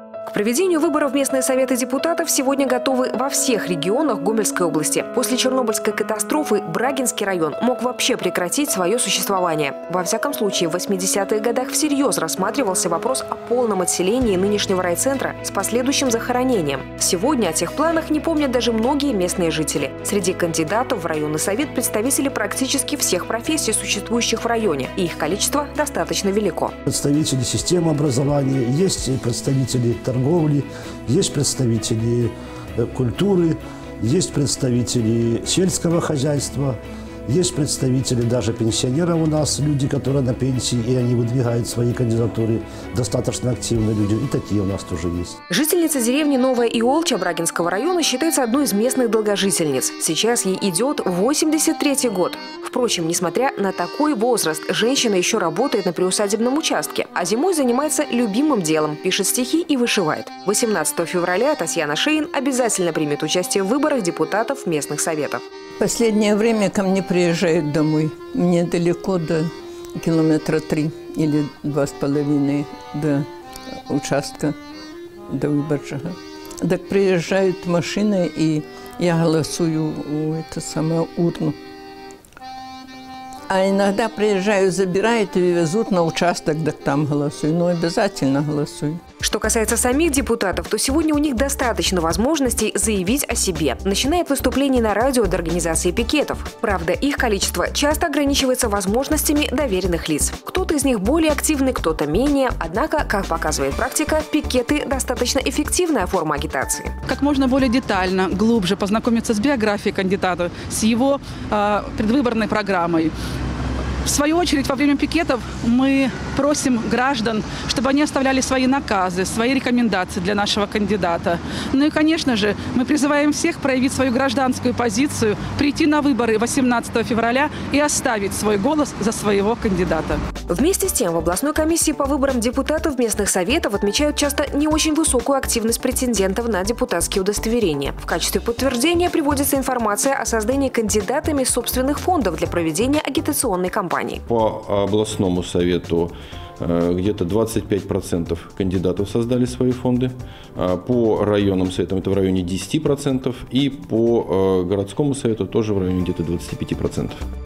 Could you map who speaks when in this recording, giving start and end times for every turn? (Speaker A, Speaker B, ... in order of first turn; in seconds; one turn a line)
Speaker A: 0.3-26.8
Speaker B: 26.9-45.4
Speaker A: 45.5-65.4
Speaker C: 65.8-73.3
Speaker C: 73.9-74.5
Speaker C: 75.3-81.6
Speaker C: 83.5-89.0
Speaker A: 89.2-107.0
Speaker D: 107.1-113.1
Speaker D: 114.0-130.2
Speaker A: 130.5-144.2
Speaker E: 144.3-157.2